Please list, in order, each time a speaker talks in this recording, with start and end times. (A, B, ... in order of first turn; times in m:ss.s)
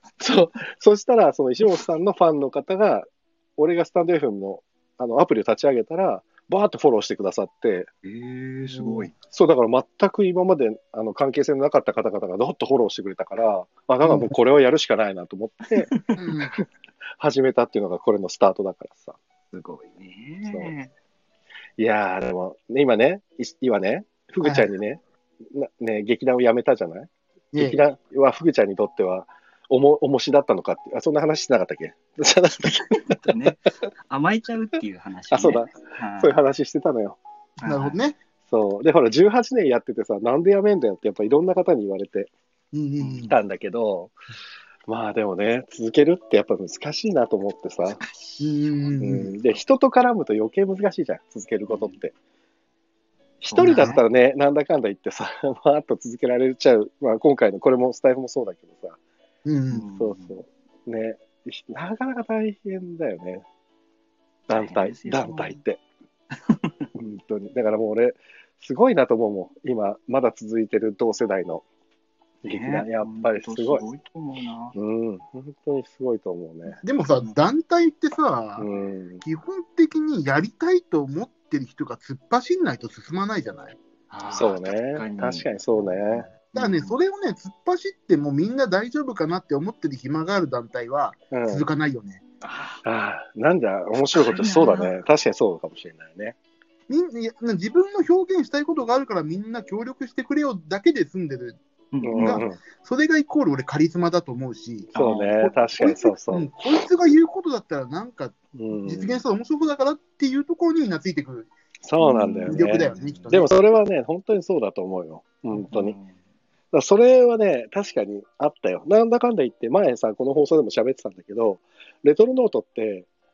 0:00.2-0:07.9 A
0:08.0-0:09.1 B
0:09.1-0:16.0 A
0:14.0-0:14.3 C
0:15.9-0:16.2 B
0:16.2-0:16.6 C
0:17.2-0:19.2 A
0:19.5-0:20.9 B
0:20.5-0:20.7 A
0:21.8-0:33.6 A
0:24.4-0:24.7 C
0:27.5-0:27.8 C
0:32.9-0:36.4 B
0:35.3-0:37.2 A
0:37.6-0:38.0 B
0:37.6-0:38.2 C
0:38.5-0:42.3 A
0:42.7-0:43.4 C
0:43.0-0:43.3 B
0:43.3-0:44.2 A
0:44.9-0:48.0 A
0:47.9-0:49.0 B
0:48.4-0:49.3 C
0:49.0-0:52.1 A
0:51.7-0:52.0 B
0:53.4-0:59.0 A
0:53.5-0:53.9 B
0:53.6-0:54.0 C
0:59.4-0:59.8 C
0:59.7-1:00.3 B
1:00.0-1:03.4 A
1:04.5-1:05.6 B
1:04.5-1:05.8 A
1:06.5-1:06.9 B
1:07.0-1:11.6 A
1:12.4-1:13.8 A
1:12.4-1:14.8 B
1:14.8-1:16.8 A
1:16.8-1:18.7 C
1:18.6-1:19.2 A
1:19.2-1:23.8 C
1:24.1-1:27.0 B
1:24.3-1:26.3 A
1:26.5-1:32.2 C
1:31.3-1:31.6 A
1:32.4-1:32.8 B
1:32.8-1:36.4 A
1:34.1-1:34.9 B
1:36.9-1:41.6 C
1:41.9-1:42.5 B
1:42.0-1:42.6 A
1:42.1-1:51.5 C
1:44.9-1:45.4 B
1:45.0-1:46.6 A
1:48.5-1:49.2 A
1:51.8-1:56.0 A
1:52.0-1:53.4 B
1:52.5-1:53.5 C
1:55.5-1:56.2 B
1:56.7-2:03.1 A